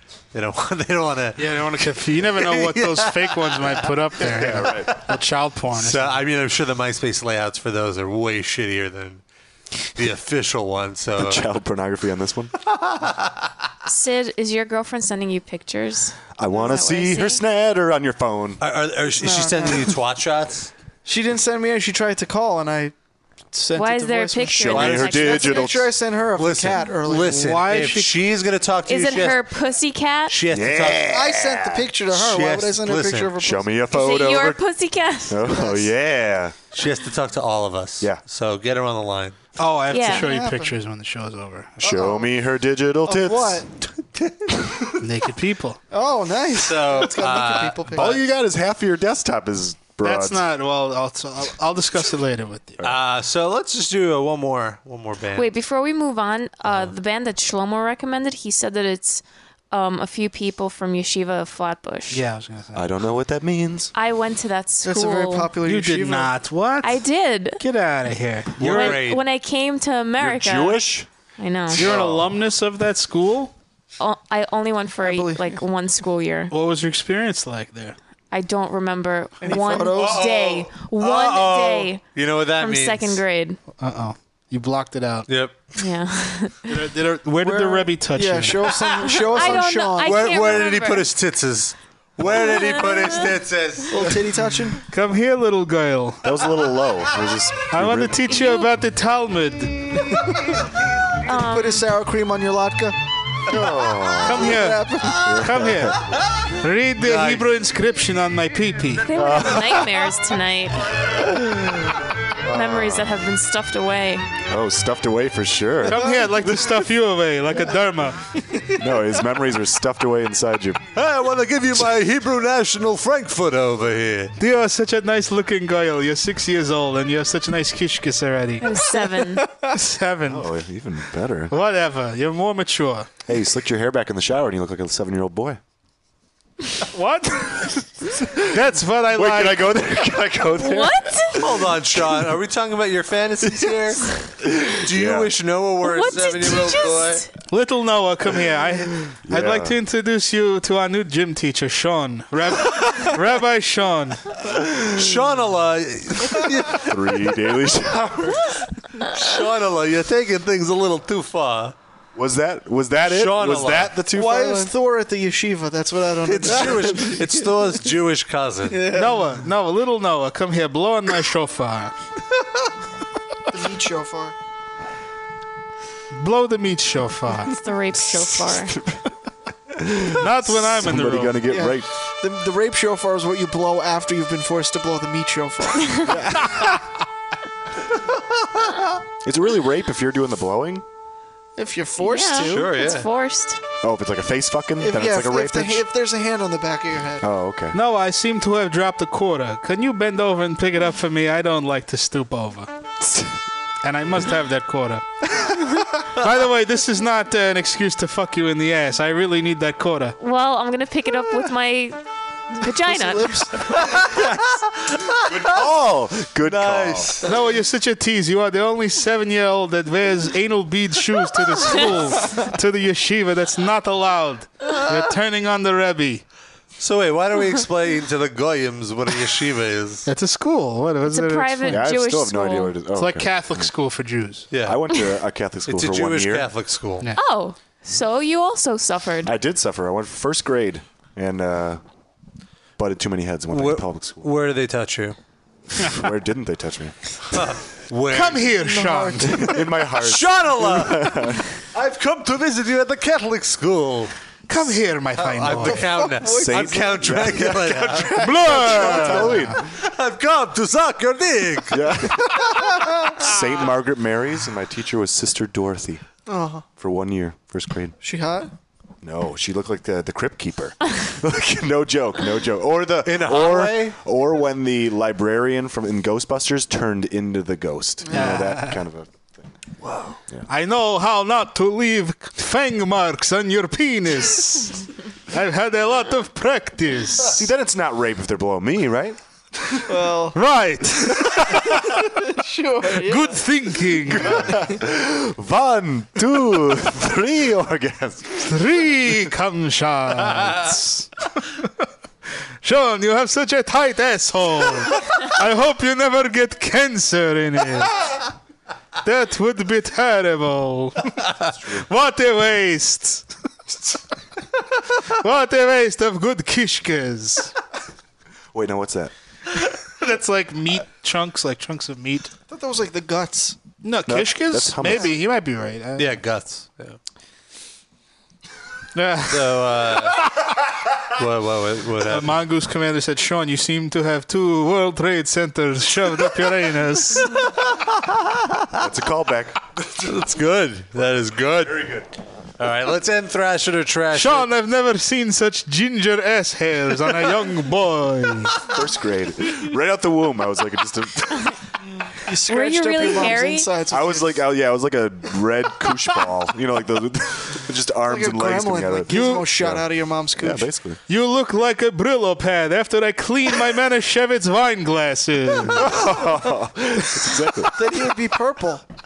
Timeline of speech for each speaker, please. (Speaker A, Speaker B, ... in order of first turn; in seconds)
Speaker A: 0.3-3.8, 5.7-9.2, 9.9-11.4, 13.0-13.3, 18.6-20.7, 24.7-25.3, 26.4-29.4, 30.3-31.2, 32.1-33.3, 36.7-39.4, 44.1-44.8, 46.6-48.2, 52.8-55.5, 68.6-69.2, 79.9-83.2, 85.3-85.6, 89.5-94.1, 107.0-107.5, 120.9-124.3, 141.3-147.2, 154.9-156.9, 159.0-161.7, 163.0-163.9, 166.2-168.8, 192.4-193.1, 216.4-217.3, 226.8-230.1, 234.5-234.8, 235.7-237.1, 243.5-245.2, 247.3-248.5, 249.9-254.1, 255.2-261.8, 273.0-273.9, 326.0-327.0, 329.3-330.3, 331.1-332.4, 338.0-338.6, 339.9-342.0, 342.6-344.5
Speaker B: 1.4-6.2, 27.3-28.1, 39.6-41.8, 45.0-45.8, 50.0-52.8, 62.1-62.9, 65.6-67.0, 67.6-69.0, 71.7-73.5, 76.5-78.0, 83.8-85.3, 86.7-88.7, 94.9-96.2, 97.7-100.0, 104.2-106.0, 106.6-109.1, 115.8-118.2, 124.4-128.8, 129.7-130.5, 131.5-133.1, 136.9-139.7, 147.5-154.2, 168.9-171.9, 176.1-177.5, 180.2-181.4, 197.7-202.7, 203.8-210.1, 217.2-226.2, 230.1-231.9, 232.9-234.5, 248.1-249.5, 254.5-255.9, 258.1-259.6, 278.1-278.7, 280.5-287.4, 290.3-291.6, 292.9-294.5, 298.4-301.1, 302.6-308.1, 309.0-311.1, 311.7-313.3, 315.0-317.5, 320.0-322.3, 323.8-326.1, 328.9-330.1, 332.0-337.4, 344.1-348.7, 359.1-359.5, 361.1-366.1
Speaker C: 4.2-4.9, 11.2-12.5, 16.4-18.6, 24.5-25.9, 30.5-31.8, 33.4-34.6, 35.3-36.5, 41.8-43.6, 47.9-50.5, 62.7-63.9, 70.2-71.1, 71.8-72.2, 96.2-98.2, 103.5-104.6, 105.2-106.0, 109.1-109.9, 112.4-113.2, 114.5-116.5, 118.8-120.8, 130.3-131.5, 133.3-135.6, 139.1-141.5, 144.4-145.3, 149.3-149.7, 156.8-158.5, 162.1-164.7, 179.7-181.9, 186.1-186.7, 189.2-190.8, 193.8-195.8, 197.2-197.8, 215.2-217.1, 231.7-233.7, 234.6-236.5, 239.2-241.8, 242.8-244.3, 245.8-246.9, 249.2-251.4, 256.2-259.6, 261.7-266.0, 266.8-268.0, 269.0-279.5, 287.3-289.2, 294.1-298.5, 318.5-319.1, 324.1-325.1, 338.8-339.6, 341.6-342.1, 348.6-351.6, 353.9-359.9, 360.4-361.0, 365.7-367.9
Speaker D: 13.8-17.4, 23.7-25.7, 28.9-30.3, 33.9-35.4, 39.9-40.3, 55.4-62.2, 63.9-65.5, 66.8-67.6, 68.6-70.8, 71.4-71.8, 74.0-76.5, 78.3-82.0, 82.6-83.6, 85.8-86.8, 89.0-91.1, 92.2-93.3, 98.3-98.7, 101.2-101.9, 109.0-111.0, 112.5-114.3, 128.6-129.4, 140.6-141.3, 145.8-147.3, 177.5-178.8, 192.0-193.6, 210.2-212.0, 212.6-213.4, 231.1-232.7, 237.2-239.3, 352.5-353.7
Speaker E: 19.2-19.9, 21.0-22.9, 23.5-27.6, 31.1-33.8, 35.5-35.9, 40.0-40.7, 41.8-42.3, 43.0-43.7, 45.9-48.2, 64.8-66.3, 75.0-75.6, 79.4-80.4, 87.4-90.5, 93.9-94.8, 101.3-103.0, 104.4-105.4, 164.1-167.4, 168.7-169.3, 173.5-174.3, 181.5-186.1, 191.6-192.9, 194.8-197.2, 212.7-213.9, 248.5-249.6, 255.9-256.8, 266.2-266.6, 268.0-268.5, 278.1-278.4, 289.9-290.4, 291.9-293.4, 322.5-323.6, 352.2-354.4, 358.1-360.7, 367.7-368.8